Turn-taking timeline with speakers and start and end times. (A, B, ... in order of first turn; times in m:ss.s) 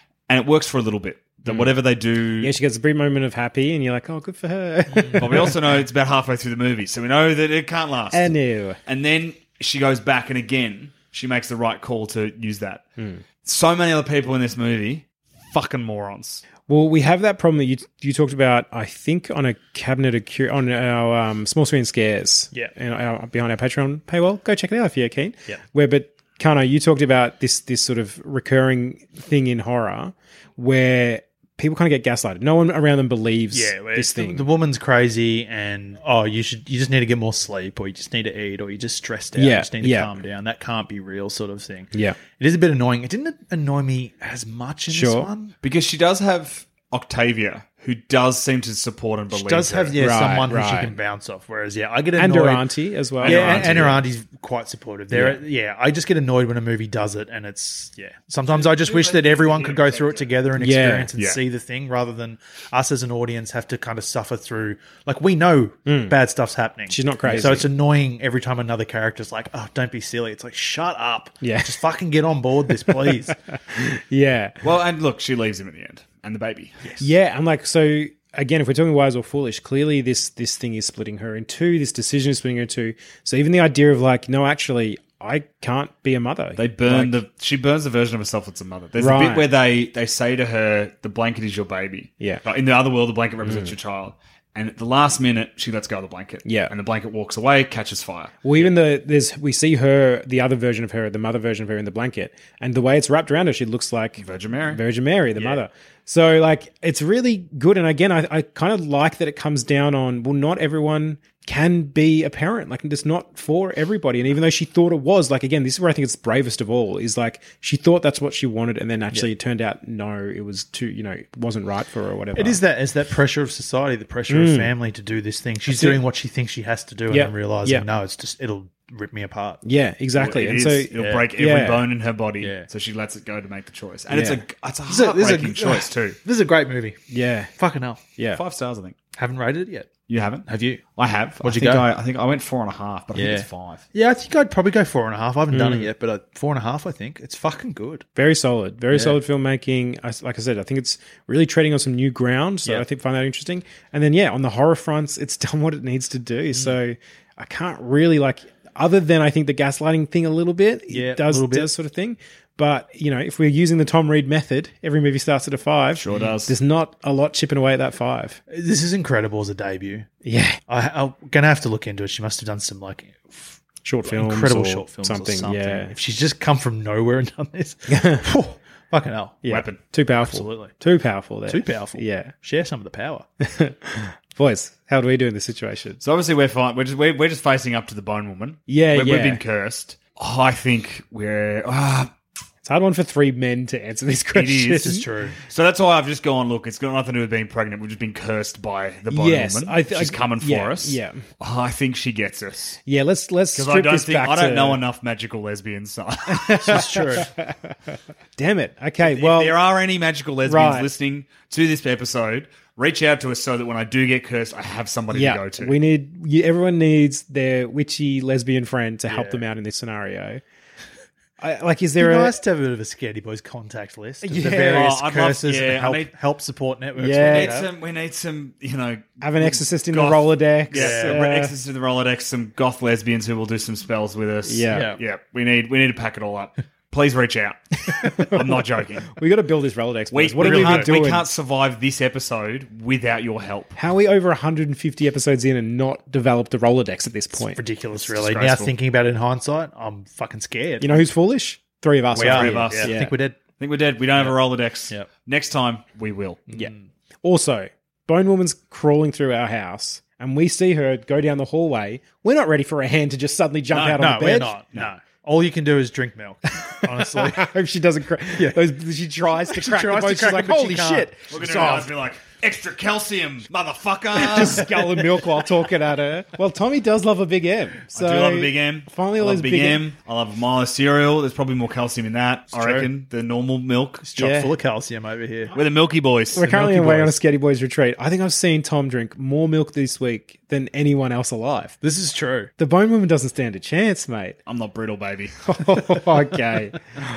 0:00.3-0:02.5 A
0:01.5-0:01.7 B
0:02.4-0:05.5 B
0:04.9-0:05.2 C
0:05.2-0:12.8 A
0:08.1-0:08.8 B
0:13.0-0:13.2 B
0:13.4-0:16.4 A
0:16.7-0:34.4 B
0:33.5-0:45.5 C
0:39.4-0:40.2 B
0:41.9-0:42.2 B
0:44.9-0:45.3 B
0:45.6-0:50.0 A
0:49.3-0:52.7 C
0:50.0-0:50.9 B
0:52.2-0:53.9 B
0:53.2-1:13.4 C
0:53.2-0:54.0 A
0:55.1-0:55.4 B
0:58.5-1:00.4 A
1:00.6-1:01.1 B
1:05.8-1:06.2 B
1:06.9-1:07.7 B
1:11.4-1:11.8 B
1:12.8-1:14.6 B
1:14.6-1:17.0 A
1:17.0-1:27.2 B
1:26.6-1:38.7 A
1:29.0-1:29.5 B
1:33.4-1:33.7 B
1:36.4-1:36.7 B
1:38.4-2:02.6 B
1:44.2-1:44.8 A
1:45.4-1:45.6 A
2:02.3-2:09.6 C
2:04.3-2:04.7 B
2:05.7-2:06.0 B
2:07.1-2:07.8 B
2:09.6-2:11.8 B
2:10.2-2:16.2 A
2:11.0-2:11.3 C
2:12.4-2:12.7 C
2:14.1-2:14.4 B
2:14.9-2:17.0 C
2:17.1-2:17.5 B
2:17.5-2:18.0 C
2:18.3-2:19.0 A
2:19.2-2:19.9 C
2:20.1-2:23.8 A
2:20.5-2:20.8 C
2:21.4-2:21.8 C
2:23.1-2:28.0 C
2:25.5-2:25.9 B
2:28.2-2:48.4 B
2:28.9-2:29.2 C
2:40.9-2:41.7 C
2:45.9-2:46.5 A
2:48.5-2:50.1 C
2:50.2-2:50.6 B
2:50.7-2:53.6 C
2:53.8-2:55.9 B
2:54.1-2:59.4 C
2:57.9-2:58.2 B
2:59.4-3:02.3 B
2:59.5-2:59.8 A
3:00.2-3:00.7 C
3:01.5-3:03.2 C
3:03.4-3:06.0 B
3:06.0-3:12.1 A
3:08.7-3:09.4 B
3:12.6-3:15.0 B
3:14.3-3:14.9 A
3:14.7-3:15.4 C
3:15.4-3:22.8 A
3:19.1-3:21.2 B
3:22.8-3:24.8 B
3:23.5-3:26.9 A
3:26.4-3:27.5 B
3:26.6-3:27.3 C
3:28.4-3:29.6 B
3:29.0-3:35.8 A
3:30.4-3:30.9 B
3:35.1-3:40.4 B
3:39.1-3:39.4 C
3:41.4-3:42.3 B
3:42.0-3:47.7 C
3:44.2-3:44.9 B
3:44.7-3:46.1 A
3:47.0-3:47.6 B
3:47.2-3:59.1 A
3:49.2-3:51.5 B
3:50.7-3:51.2 C
3:54.5-3:55.0 B
3:54.7-3:55.0 C
3:57.9-3:58.4 B
3:59.1-4:01.2 B
4:00.1-4:03.8 A
4:00.4-4:00.9 C
4:03.8-4:07.6 B
4:07.4-4:11.0 C
4:08.0-4:08.7 A
4:10.8-4:13.1 B
4:12.1-4:13.4 C
4:12.1-4:12.9 A
4:13.6-4:16.4 A
4:16.5-4:16.8 C
4:17.2-4:24.9 B
4:23.7-4:24.0 A
4:24.0-4:27.5 C
4:26.6-4:31.2 B
4:28.4-4:28.7 C
4:29.5-4:31.9 C
4:31.3-4:34.7 A
4:34.1-4:39.8 B
4:34.6-4:34.9 C
4:37.9-4:44.0 A
4:42.5-4:42.9 C
4:44.0-4:45.5 C
4:44.2-4:44.5 B
4:45.5-4:46.5 A
4:46.3-4:51.8 B
4:46.4-4:47.2 C
4:51.8-4:52.5 C
4:52.6-4:54.4 B
4:54.4-4:55.8 A
4:55.4-4:56.8 B